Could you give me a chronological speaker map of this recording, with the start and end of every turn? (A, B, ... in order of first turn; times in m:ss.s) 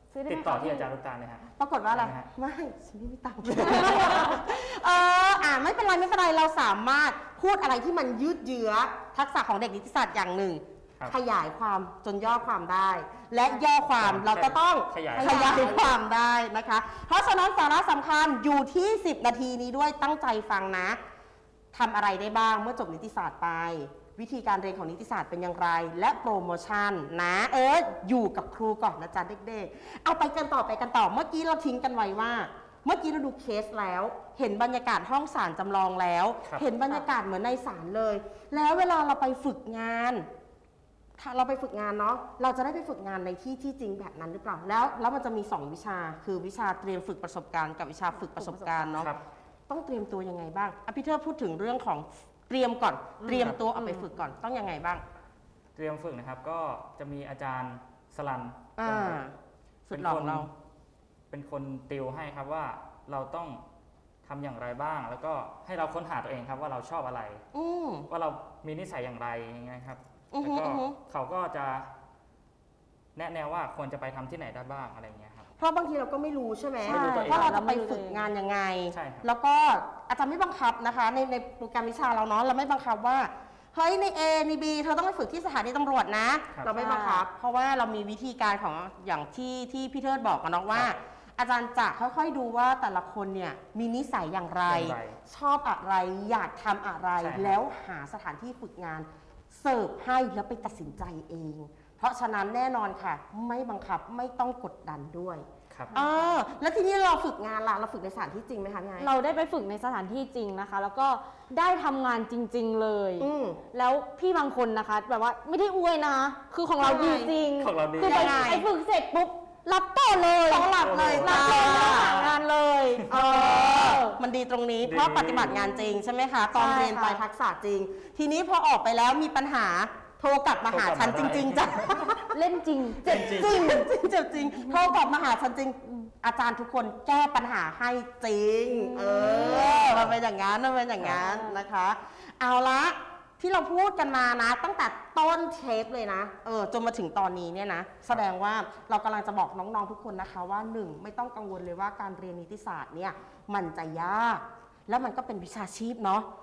0:00.1-0:00.9 A
0:00.2-0:02.3 B
0:01.6-0:21.0 C
0:03.4-0:04.5 B
0:14.0-0:15.8 B
0:15.2-0:15.8 A
0:21.7-0:40.3 C
0:41.2-0:49.1 C
0:48.1-0:49.0 A
0:49.7-0:55.0 C
0:53.2-0:54.1 A
0:55.8-0:59.2 B
0:58.8-0:59.4 C
0:59.9-1:00.5 C
0:59.9-1:00.5 B
1:01.3-1:03.6 B
1:04.2-1:07.4 B
1:07.5-1:08.1 C
1:08.1-1:11.9 B
1:10.3-1:11.0 C
1:13.2-1:15.5 B
1:15.6-1:49.1 C
1:16.9-1:17.6 B
1:16.9-1:18.3 A
1:18.9-1:19.3 B
1:26.7-1:27.2 A
1:34.6-1:35.2 B
1:37.2-1:37.6 B
1:49.0-2:00.7 A
1:53.2-1:53.6 C
1:56.8-1:57.3 C
1:57.6-1:58.6 B
1:58.0-1:58.6 C
2:00.5-2:02.2 C
2:00.7-2:02.4 B
2:01.2-2:04.2 A
2:03.1-2:12.3 C
2:04.8-2:05.6 B
2:06.6-2:07.2 A
2:10.7-2:12.2 B
2:12.3-2:14.9 A
2:13.0-2:13.8 B
2:13.1-2:36.3 C
2:18.7-2:19.9 A
2:19.3-2:20.2 B
2:21.1-2:21.6 A